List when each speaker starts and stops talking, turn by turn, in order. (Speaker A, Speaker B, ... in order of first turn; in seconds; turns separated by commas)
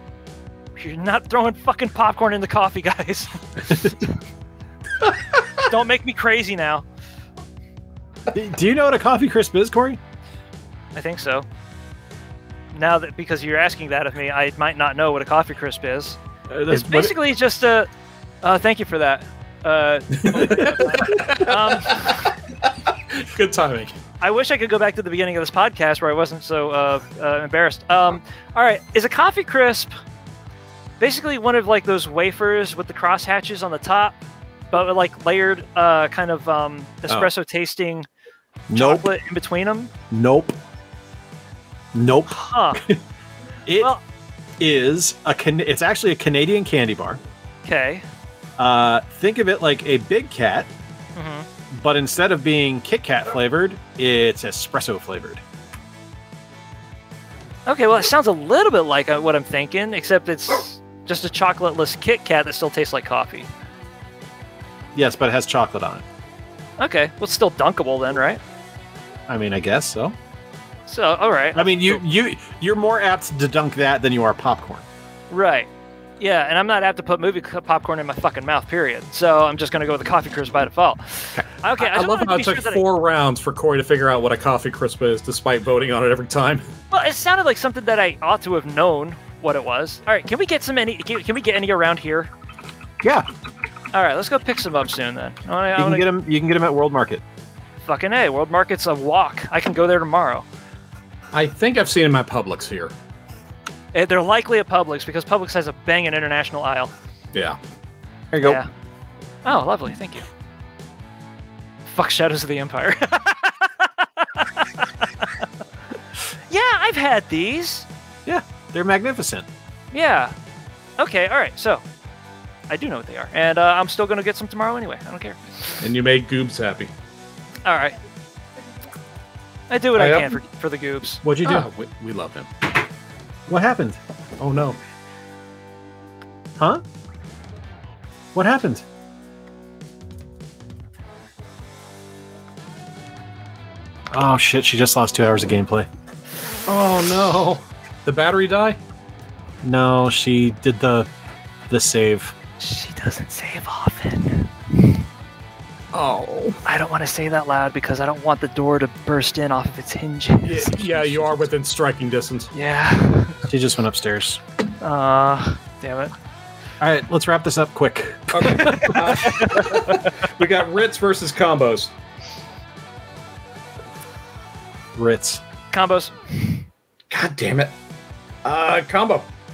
Speaker A: 0.8-4.1, Speaker A: 5.5-6.8, Speaker B: 8.3-10.0, Speaker A: 10.9-11.5, Speaker A: 12.7-17.9, Speaker B: 16.5-17.2, Speaker A: 18.4-22.3, Speaker C: 20.2-22.3, Speaker C: 23.1-23.9, Speaker A: 24.2-29.9, Speaker A: 31.0-34.1, Speaker A: 34.7-38.1, Speaker B: 38.7-39.1, Speaker A: 38.7-39.9, Speaker B: 40.1-40.6, Speaker B: 41.9-43.0, Speaker A: 42.3-42.8, Speaker B: 43.6-43.9, Speaker B: 44.6-47.2, Speaker A: 47.6-48.0, Speaker B: 48.6-50.7, Speaker A: 51.1-51.5, Speaker B: 51.7-55.4, Speaker A: 57.7-63.5, Speaker B: 64.9-66.0, Speaker A: 66.8-68.4, Speaker B: 69.3-70.2, Speaker A: 70.9-72.0, Speaker B: 71.5-74.8, Speaker A: 75.3-75.7, Speaker A: 76.2-82.8, Speaker C: 81.8-86.7, Speaker A: 86.9-92.3, Speaker B: 93.0-93.3, Speaker A: 93.9-96.1, Speaker B: 95.8-97.2, Speaker A: 97.8-100.5, Speaker C: 101.3-102.9, Speaker A: 103.9-106.9, Speaker B: 108.3-108.6, Speaker A: 108.4-108.7, Speaker A: 109.4-110.2, Speaker A: 111.8-115.3, Speaker A: 116.5-117.9, Speaker B: 118.2-119.5, Speaker A: 119.9-120.3, Speaker A: 121.0-121.8, Speaker A: 122.7-125.8, Speaker C: 125.8-126.9, Speaker A: 127.6-128.0, Speaker A: 129.7-131.2, Speaker C: 129.9-130.4, Speaker B: 131.2-131.7, Speaker C: 131.4-132.5, Speaker B: 133.5-134.0, Speaker C: 134.4-134.8, Speaker B: 136.6-136.8, Speaker B: 138.3-138.8, Speaker B: 144.1-145.9, Speaker C: 146.7-148.8, Speaker B: 149.6-151.1, Speaker B: 151.7-152.3, Speaker A: 152.6-154.9, Speaker C: 155.9-156.6, Speaker A: 156.6-161.2, Speaker C: 160.4-162.5, Speaker A: 162.5-163.4, Speaker B: 163.4-164.4, Speaker A: 164.8-166.1, Speaker B: 166.8-169.4, Speaker C: 168.3-171.9, Speaker A: 168.4-169.9, Speaker B: 174.9-175.4, Speaker A: 175.7-176.6, Speaker C: 177.1-177.7, Speaker C: 178.4-179.3